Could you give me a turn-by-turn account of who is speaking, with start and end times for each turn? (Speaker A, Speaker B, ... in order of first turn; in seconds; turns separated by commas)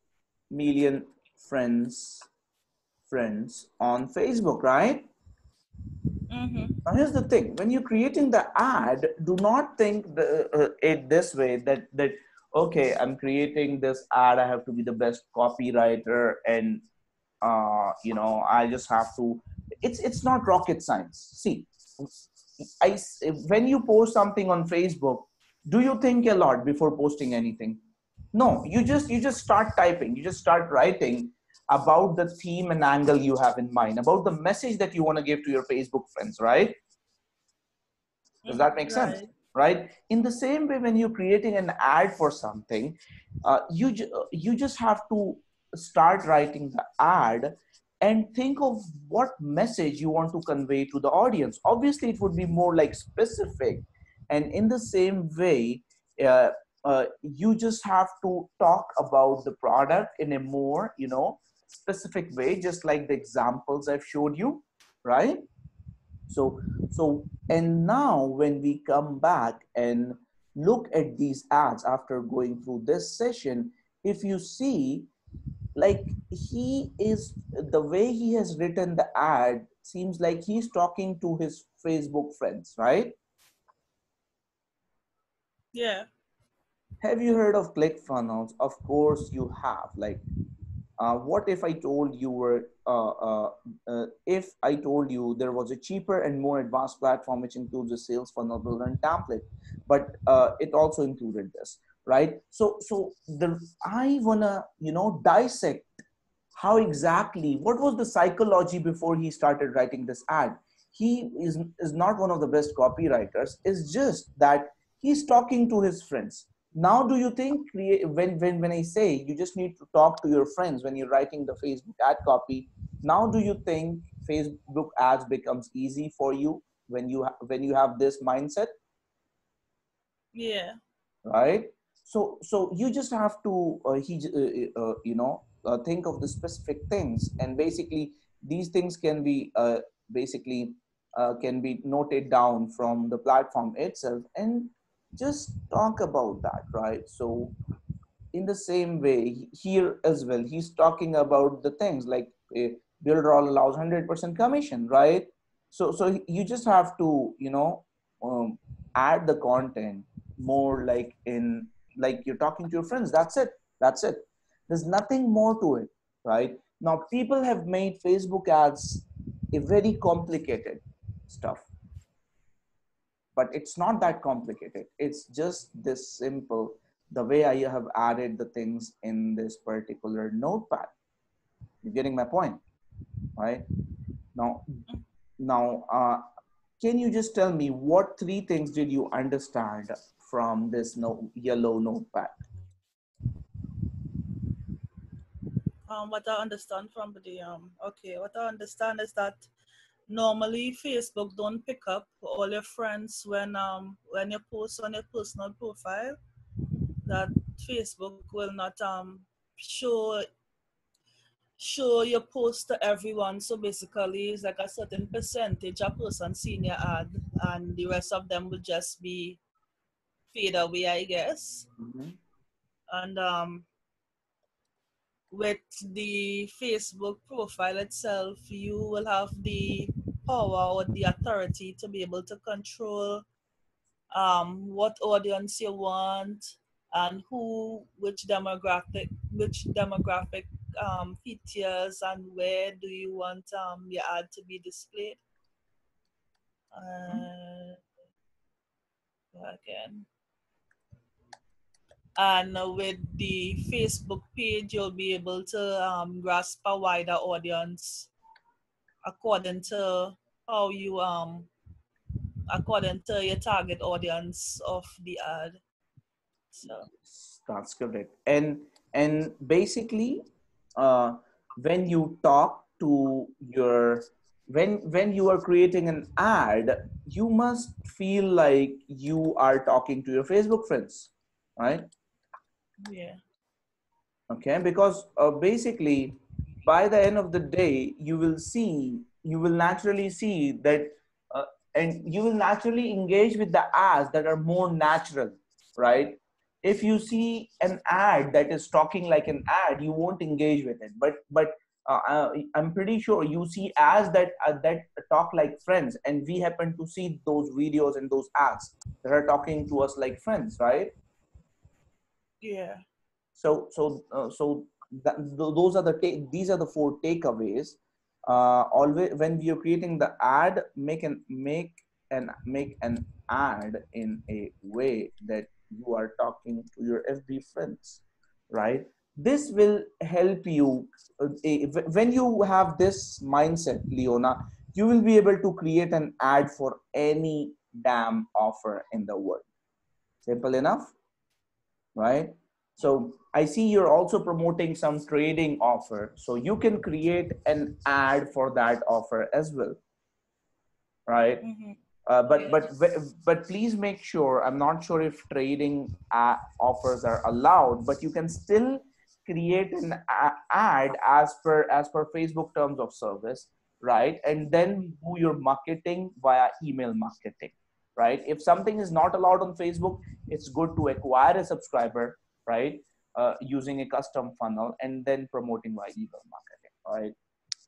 Speaker A: 0.5-2.3, Speaker A: 3.1-5.1, Speaker B: 6.3-6.8, Speaker A: 6.8-16.8, Speaker A: 17.4-22.1, Speaker A: 22.8-27.8, Speaker A: 28.3-36.8, Speaker B: 38.4-39.3, Speaker A: 38.5-65.5, Speaker A: 66.3-75.1, Speaker A: 75.8-83.2, Speaker B: 85.7-86.1, Speaker A: 87.0-90.2, Speaker A: 91.0-105.9, Speaker A: 106.5-128.7, Speaker B: 130.3-130.8, Speaker A: 131.2-147.5, Speaker A: 148.3-171.7, Speaker A: 173.3-180.9, Speaker A: 181.8-182.6, Speaker A: 183.4-183.7, Speaker A: 184.3-184.7, Speaker A: 185.4-186.2, Speaker A: 186.8-192.3, Speaker B: 195.9-199.5, Speaker B: 200.1-206.2, Speaker B: 207.0-210.2, Speaker B: 211.6-219.4, Speaker B: 220.3-221.7, Speaker A: 221.8-222.2, Speaker B: 222.9-223.7, Speaker B: 225.3-233.2, Speaker B: 234.1-245.2, Speaker B: 246.7-247.8, Speaker B: 249.3-250.1, Speaker B: 252.2-258.1, Speaker B: 259.0-261.5, Speaker B: 262.5-265.6, Speaker B: 266.5-266.9, Speaker A: 267.0-270.2, Speaker A: 270.8-281.9, Speaker B: 282.8-283.2, Speaker A: 284.3-310.9, Speaker B: 312.4-312.8, Speaker A: 313.4-339.4, Speaker A: 340.2-340.9, Speaker A: 341.9-349.8, Speaker A: 351.1-351.4, Speaker B: 351.4-352.6, Speaker A: 352.1-377.1